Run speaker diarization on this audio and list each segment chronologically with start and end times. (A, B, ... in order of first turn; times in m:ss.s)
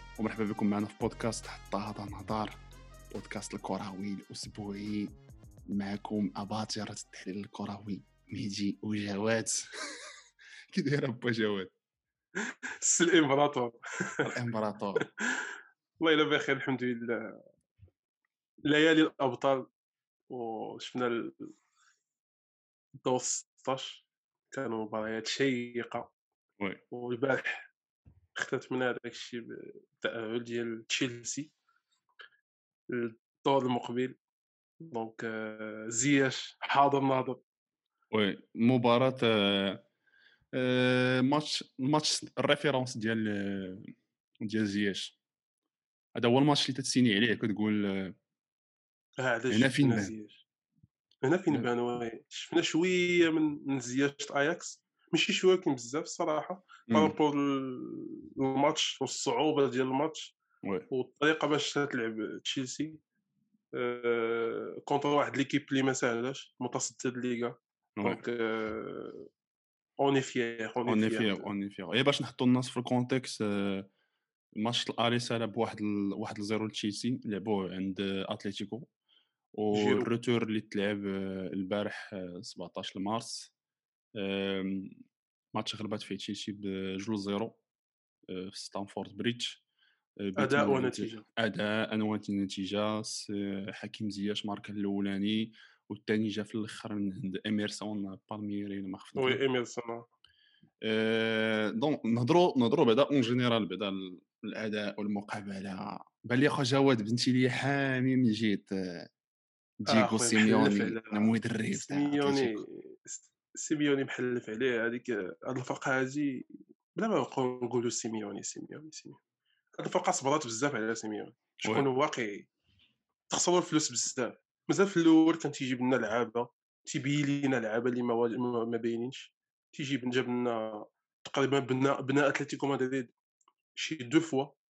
0:00.2-0:02.6 A
0:03.1-0:05.2 A
0:05.7-0:09.7 A
0:10.7-0:11.7 A
0:12.4-0:14.3 B
0:14.2-0:15.1 A
0:15.0-0:17.4 B
0:18.6-0:19.7 B
0:20.3-0:21.5 B
0:23.0-0:26.1 B
0:26.9-0:27.7 B
0:28.3-0:31.5 B
0:32.9-0:34.2 B
0:34.8-0:37.4 B
0:38.1-0:39.8 A
0:40.5-0:45.2 A
0:46.1-0:48.2 A
0:49.2-0:50.4 B
0:49.5-0:50.1 A
0:51.2-1:00.4 B
0:56.9-0:57.1 A
1:00.6-1:00.9 A
1:00.9-1:03.0 B
1:03.7-1:09.3 B
1:10.0-1:11.5 B
1:10.9-1:13.9 A
1:14.6-1:18.9 A
1:19.6-1:23.5 A
1:19.7-1:20.1 B
1:24.2-1:25.0 A
1:25.5-1:27.6 A
1:28.3-1:29.6 A
1:30.2-1:39.4 A
1:30.4-1:31.2 B
1:39.2-1:40.0 B
1:40.8-1:49.1 A
1:49.8-1:52.6 A
1:49.9-1:59.2 B
1:59.8-2:02.5 B
2:03.3-2:13.1 B
2:13.7-2:14.6 B